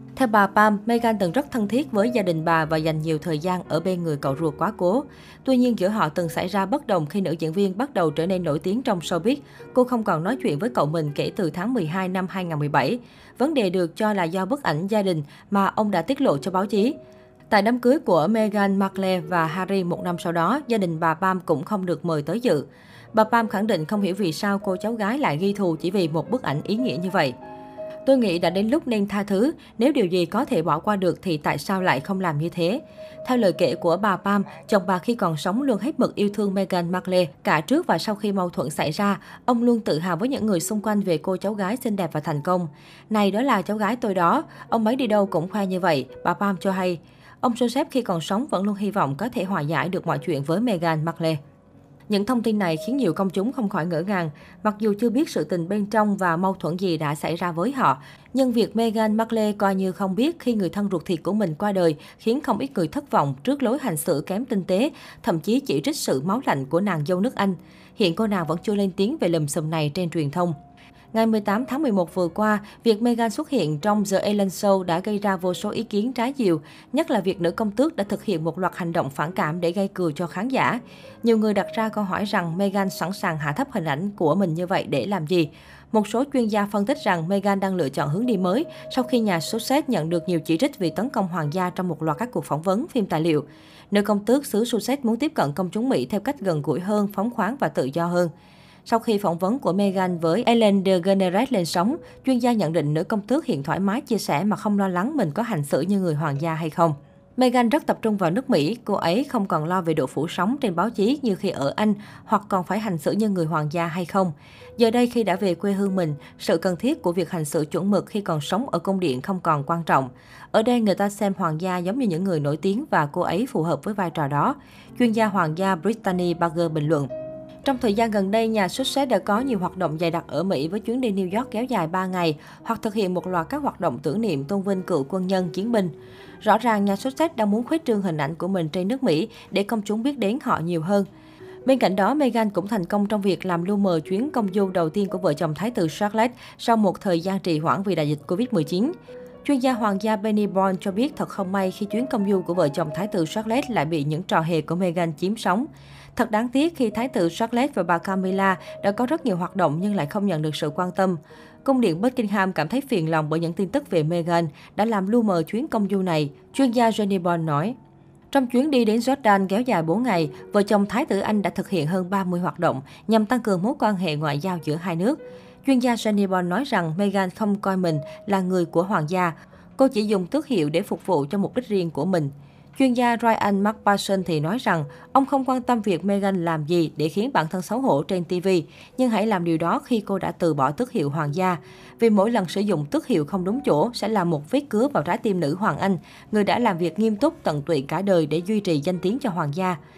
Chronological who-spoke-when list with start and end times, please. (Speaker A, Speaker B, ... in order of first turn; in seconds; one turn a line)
Speaker A: 0.2-16.9
Speaker A: 17.5-27.4
Speaker A: 28.1-51.4
Speaker A: 52.1-70.5
Speaker A: 71.1-98.3
Speaker A: 98.8-127.1
Speaker A: 127.6-141.1
Speaker A: 141.7-167.8
Speaker A: 168.3-199.8